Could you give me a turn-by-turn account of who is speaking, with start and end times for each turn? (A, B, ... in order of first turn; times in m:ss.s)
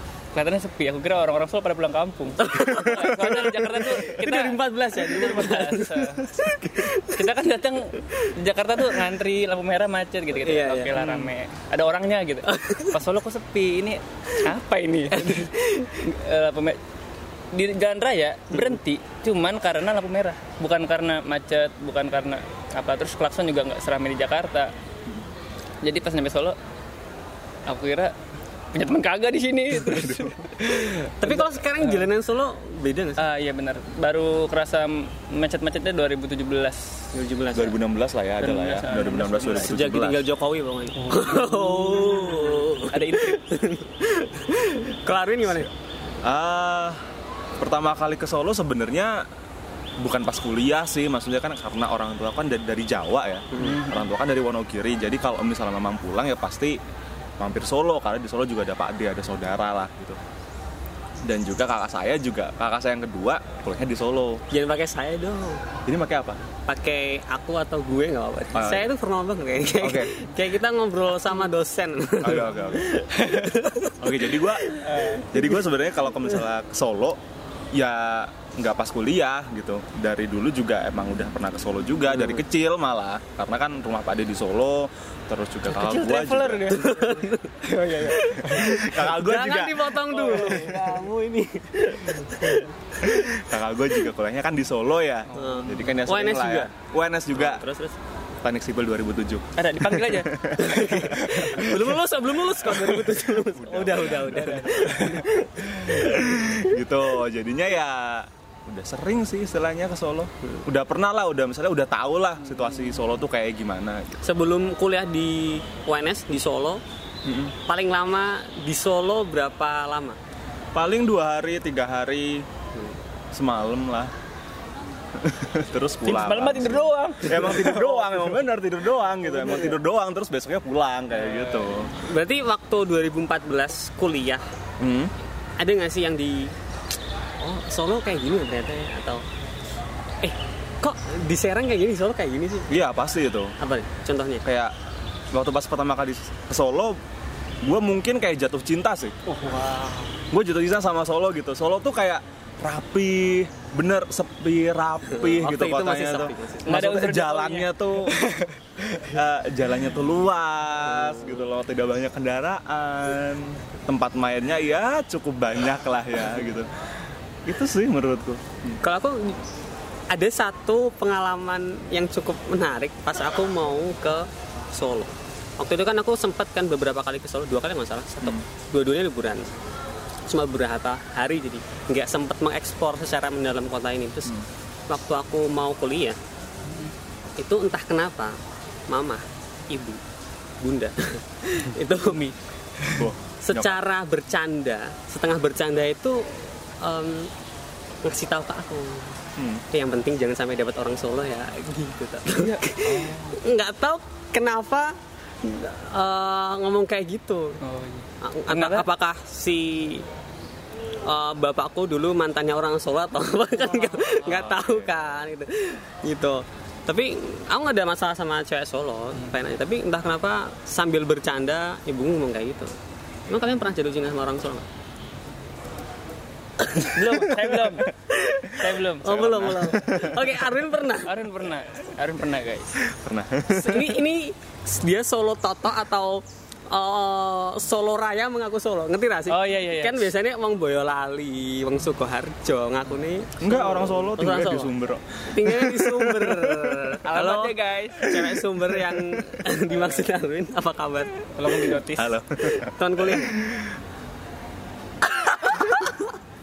0:00.3-0:06.3 A
0:02.4-0:07.3 B
0:02.8-0:03.4 C
0:06.4-0:06.9 C
0:07.1-0:16.8 A
0:10.4-0:11.0 B
0:11.0-0:11.3 C
0:12.5-0:12.9 B
0:15.1-0:16.0 B
0:17.5-0:24.7 A
0:25.8-0:26.6 A
0:27.7-0:28.1 A
0:28.7-0:32.1 A
0:29.8-0:30.4 C
0:31.2-0:33.2 B
0:33.2-0:37.1 A
0:37.1-0:37.8 B
0:37.5-0:40.2 C
0:38.4-0:39.8 A
0:39.6-0:45.7 B
0:41.0-0:43.4 A
0:46.2-0:47.0 C
0:47.6-0:49.3 C
0:50.0-0:56.8 C
0:53.6-0:54.0 A
0:57.4-1:00.2 C
1:01.2-1:04.4 C
1:04.5-1:05.6 B
1:05.9-1:06.4 C
1:06.7-1:15.4 B
1:08.5-1:08.9 C
1:09.8-1:10.1 C
1:12.2-1:12.9 C
1:14.0-1:17.2 C
1:14.8-1:15.3 A
1:17.7-1:26.8 C
1:25.7-1:28.2 A
1:26.7-1:33.4 B
1:28.4-1:31.0 C
1:30.1-1:30.8 A
1:33.0-1:37.6 C
1:35.3-1:35.8 A
1:35.3-1:36.7 B
1:37.3-1:38.0 B
1:38.4-1:42.0 C
1:39.6-1:40.3 A
1:40.6-1:46.6 B
1:42.7-1:54.2 C
1:54.2-1:56.8 B
1:57.2-1:57.6 C
1:57.7-2:00.2 B
2:00.7-2:02.5 C
2:03.3-2:04.1 C
2:05.1-2:11.9 C
2:06.0-2:08.4 A
2:11.2-2:11.9 A
2:11.9-2:14.4 B
2:14.8-2:15.1 C
2:15.6-2:16.6 B
2:17.4-2:19.2 B
2:20.2-2:22.8 B
2:22.7-2:23.6 C
2:23.6-2:24.4 B
2:24.4-2:24.8 C
2:25.3-2:27.0 C
2:27.6-2:29.2 C
2:29.3-2:30.1 A
2:30.3-2:38.2 C
2:35.1-2:36.9 B
2:36.7-2:38.4 A
2:39.0-2:46.7 C
2:47.4-2:48.8 C
2:48.8-2:49.4 B
2:50.1-2:59.5 B
3:00.3-3:04.4 B
3:04.9-3:06.2 B
3:07.4-3:10.0 B
3:10.6-3:12.2 B
3:11.9-3:13.0 A
3:12.9-3:13.8 C
3:13.4-3:17.3 B
3:18.0-3:19.2 B
3:19.4-3:19.6 C
3:19.7-3:27.6 B
3:22.3-3:23.3 A
3:23.0-3:23.4 C
3:27.6-3:28.9 A
3:28.2-3:30.1 B
3:31.0-3:42.7 B
3:34.2-3:34.9 C
3:43.3-3:44.7 B
3:46.6-3:46.9 B
3:46.9-3:47.9 A
3:47.4-3:47.7 C
3:48.2-3:51.2 B
3:48.6-3:49.2 A
3:49.0-3:50.3 C
3:51.0-3:52.8 A
3:52.8-3:54.0 C
3:53.5-4:04.7 B
3:59.3-4:00.1 A
4:03.4-4:07.0 C
4:05.3-4:11.5 B
4:07.0-4:08.4 A
4:11.4-4:12.2 A
4:11.8-4:13.8 C
4:12.7-4:13.4 B
4:15.4-4:16.0 B